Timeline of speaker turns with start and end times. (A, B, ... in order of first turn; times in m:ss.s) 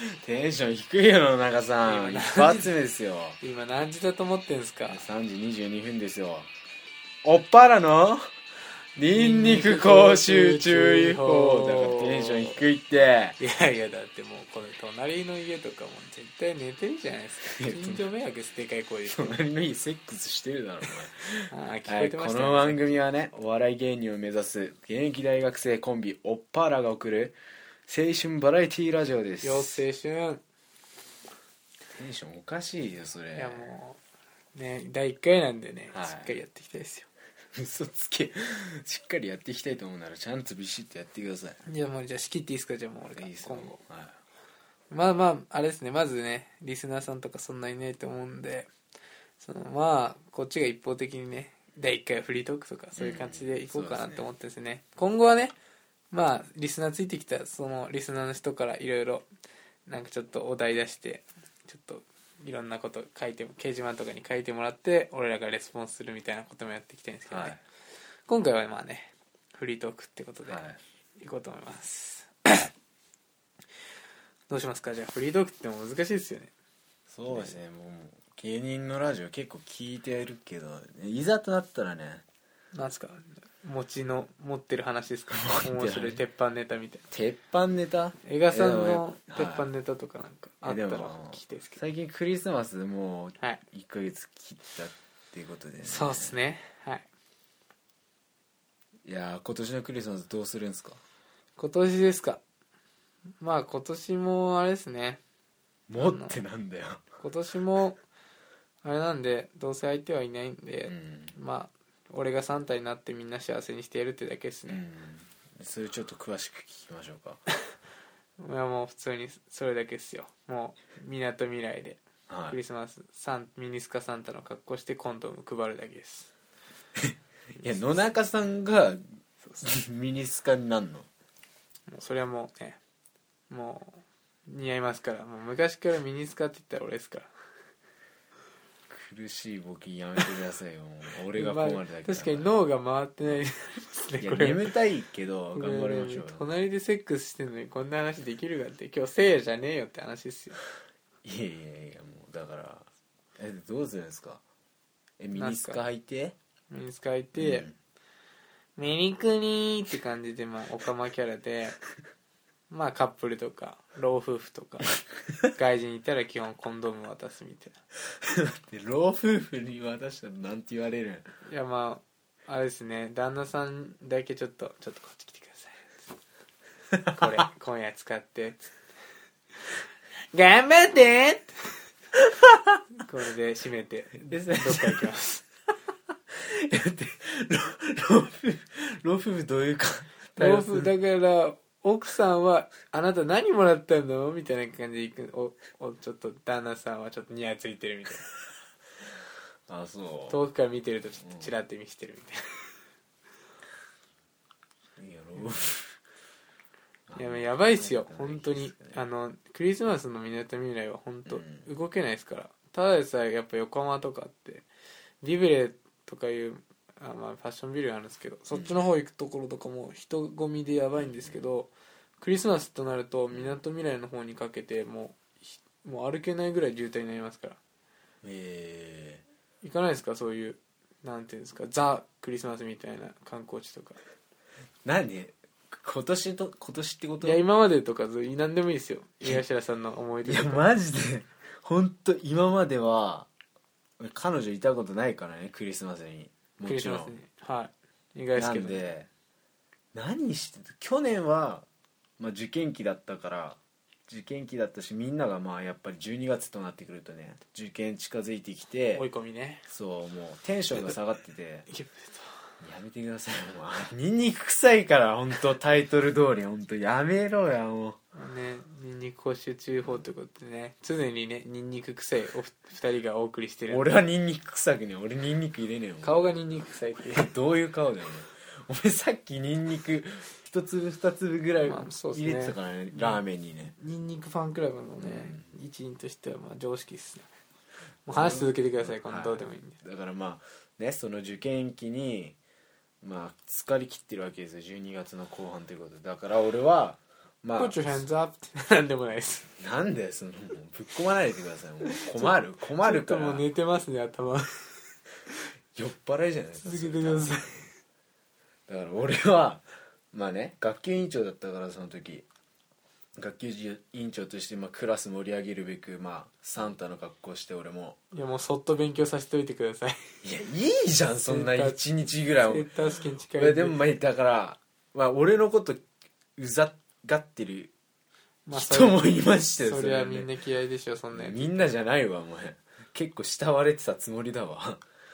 0:00.2-0:03.4 A
0:01.8-0:02.7 B
0:03.4-0:05.0 B
0:04.9-0:06.5 A
0:07.2-0:08.2 A
0:09.0-0:13.4 A
0:09.1-0:12.6 B
0:13.4-0:19.4 B
0:17.5-0:18.0 A
0:19.1-0:29.8 A
0:21.5-0:23.0 B
0:29.4-0:30.4 B
0:31.9-0:33.7 A
0:33.3-0:34.0 B
0:34.5-0:37.1 B
0:35.9-0:36.3 A
0:37.5-0:41.6 A
0:41.6-0:43.8 B
0:43.2-0:44.1 A
0:44.9-0:48.7 B
0:49.4-0:55.5 B
0:53.0-0:54.2 A
0:56.1-0:59.3 B
0:59.9-1:07.6 B
1:07.3-1:07.6 A
1:08.3-1:10.6 B
1:10.5-1:10.8 A
1:11.2-1:12.7 B
1:14.5-1:16.5 B
1:17.1-1:22.2 A
1:17.3-1:17.5 B
1:22.7-1:27.0 B
1:25.3-1:26.2 A
1:27.1-1:29.6 A
1:28.2-1:31.8 B
1:30.6-1:36.3 A
1:35.8-1:37.0 B
1:39.0-1:41.0 A
1:41.6-1:42.4 B
1:43.4-1:45.2 B
1:45.9-1:47.0 A
1:46.0-1:46.4 B
1:47.2-1:48.0 B
1:48.8-1:54.8 B
1:50.9-1:51.3 A
1:54.7-1:57.4 A
1:58.4-2:06.3 B
2:02.3-2:02.6 A
2:07.0-2:09.0 A
2:09.6-2:11.1 A
2:11.9-2:12.8 B
2:13.5-2:17.3 B
2:18.9-2:22.5 A
2:21.3-2:24.7 B
2:24.2-2:26.4 A
2:25.5-2:30.6 B
2:31.2-2:34.4 A
2:35.2-2:36.4 A
2:35.4-2:35.8 B
2:36.7-2:37.7 B
2:37.4-2:37.7 A
2:38.8-2:41.8 B
2:42.7-2:44.9 B
2:45.5-2:47.8 B
2:48.2-2:51.3 A
2:51.4-2:56.0 B
2:56.9-2:57.3 A
2:57.1-2:58.6 B
3:00.3-3:01.5 B
3:03.0-3:05.4 B
3:04.3-3:05.1 A
3:06.3-3:10.9 A
3:10.4-3:18.3 B
3:19.7-3:20.4 A
3:20.3-3:22.4 B
3:21.2-3:21.5 A
3:25.0-3:25.9 A
3:27.1-3:29.0 A
3:27.2-3:34.6 B
3:31.3-3:31.7 A
3:35.2-3:47.6 B
3:38.5-3:38.8 A
3:41.0-3:41.4 A
3:43.3-3:43.6 A
3:48.2-3:49.2 A
3:49.6-3:54.0 B
3:54.8-3:57.4 A
3:57.2-4:00.6 B
4:00.2-4:03.3 A
4:04.0-4:07.1 A
4:06.6-4:08.8 B
4:08.3-4:09.1 A
4:09.9-4:11.7 A
4:12.2-4:19.0 A
4:19.0-4:19.6 B
4:19.7-4:21.7 A
4:21.7-4:22.2 B
4:22.6-4:28.0 A
4:28.1-4:33.9 B
4:33.7-4:36.3 A
4:36.0-4:37.3 B
4:37.2-4:43.7 A
4:41.6-4:43.2 B
4:43.7-4:47.3 B
4:45.0-4:45.4 A
4:48.0-4:49.8 B
4:48.1-4:52.4 A
4:53.0-4:58.0 A
4:57.6-4:59.5 B
4:59.6-5:03.4 A
5:01.8-5:04.5 B
5:05.7-5:07.5 A
5:06.6-5:07.7 B
5:08.7-5:12.2 A
5:13.2-5:18.0 A
5:18.1-5:20.0 B
5:20.2-5:22.7 A
5:21.2-5:21.8 B
5:22.4-5:23.8 B
5:23.3-5:25.8 A
5:26.4-5:27.7 A
5:28.4-5:29.0 B
5:28.5-5:30.3 A
5:29.6-5:31.7 B
5:31.1-5:34.8 A